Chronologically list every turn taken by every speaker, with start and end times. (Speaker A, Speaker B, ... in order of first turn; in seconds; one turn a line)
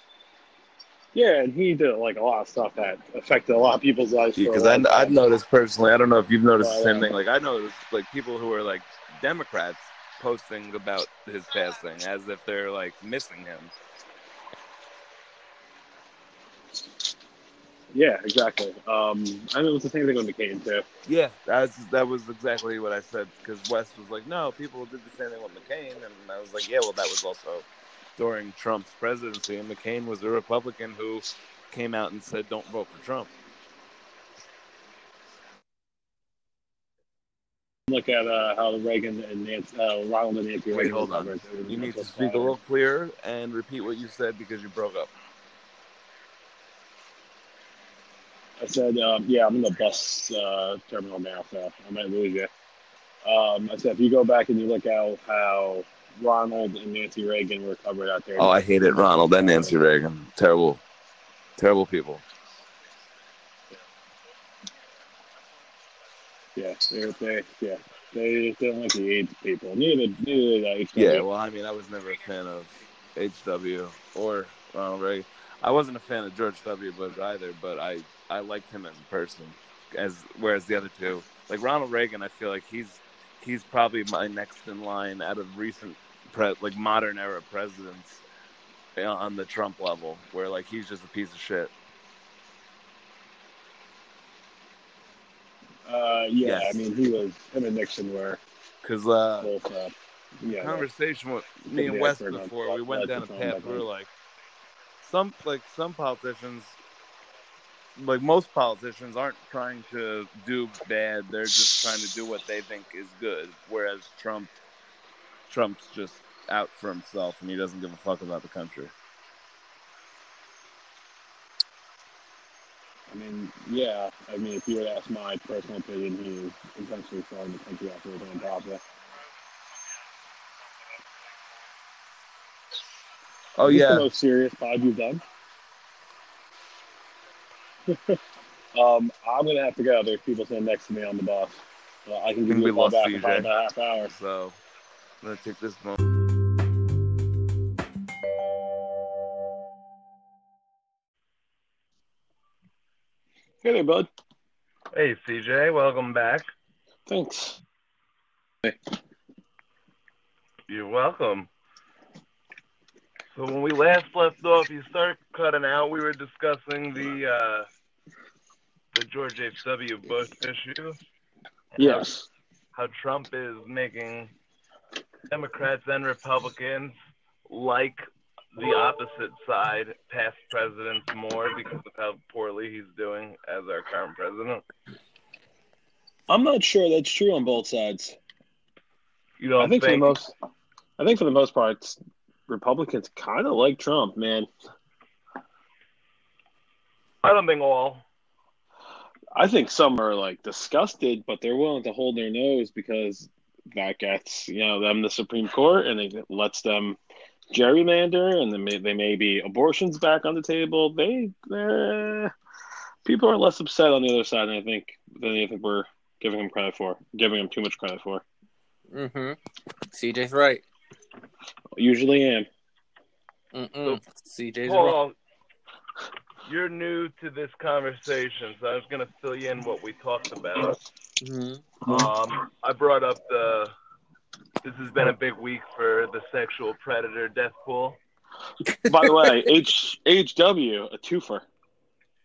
Speaker A: 1.1-5.2
Speaker B: 4.4-13.7
Speaker A: 6.6-7.1
Speaker A: 17.9-20.8
Speaker B: 21.1-27.6
Speaker B: 28.2-33.3
Speaker A: 37.9-42.5
Speaker B: 40.7-45.1
Speaker A: 48.6-52.5
Speaker A: 53.2-59.7
Speaker B: 58.4-60.8
Speaker B: 61.6-62.2
Speaker A: 66.5-71.2
Speaker B: 70.9-88.2
Speaker B: 88.9-91.7
Speaker A: 95.8-98.4
Speaker B: 96.4-96.8
Speaker B: 98.8-99.5
Speaker A: 99.4-100.9
Speaker B: 100.6-104.1
Speaker A: 101.7-103.8
Speaker B: 105.0-106.8
Speaker B: 108.0-114.5
Speaker B: 115.5-118.9
Speaker A: 123.1-128.8
Speaker B: 133.6-134.1
Speaker A: 133.6-135.2
Speaker A: 137.9-138.2
Speaker A: 138.7-144.1
Speaker B: 142.5-143.5
Speaker B: 144.1-144.6
Speaker B: 145.2-146.0
Speaker A: 153.6-154.1
Speaker C: 154.9-156.5
Speaker A: 157.1-157.6
Speaker C: 160.7-161.5
Speaker C: 163.3-167.7
Speaker C: 168.9-171.0
Speaker C: 171.8-172.1
Speaker A: 171.8-172.3
Speaker C: 172.7-174.3
Speaker C: 175.3-176.9
Speaker C: 177.5-184.6
Speaker A: 186.3-188.2
Speaker C: 189.4-190.1
Speaker A: 189.6-190.3
Speaker A: 191.0-194.5
Speaker C: 197.2-198.0
Speaker A: 199.3-207.0
Speaker A: 207.5-212.3
Speaker A: 213.0-218.2
Speaker D: 218.9-219.4
Speaker D: 219.9-220.6
Speaker A: 221.8-222.5
Speaker D: 223.5-225.0
Speaker C: 224.6-225.1
Speaker C: 226.4-230.8
Speaker D: 231.2-231.8
Speaker C: 231.8-233.7
Speaker C: 234.6-238.0
Speaker D: 238.6-239.5
Speaker A: 238.8-241.4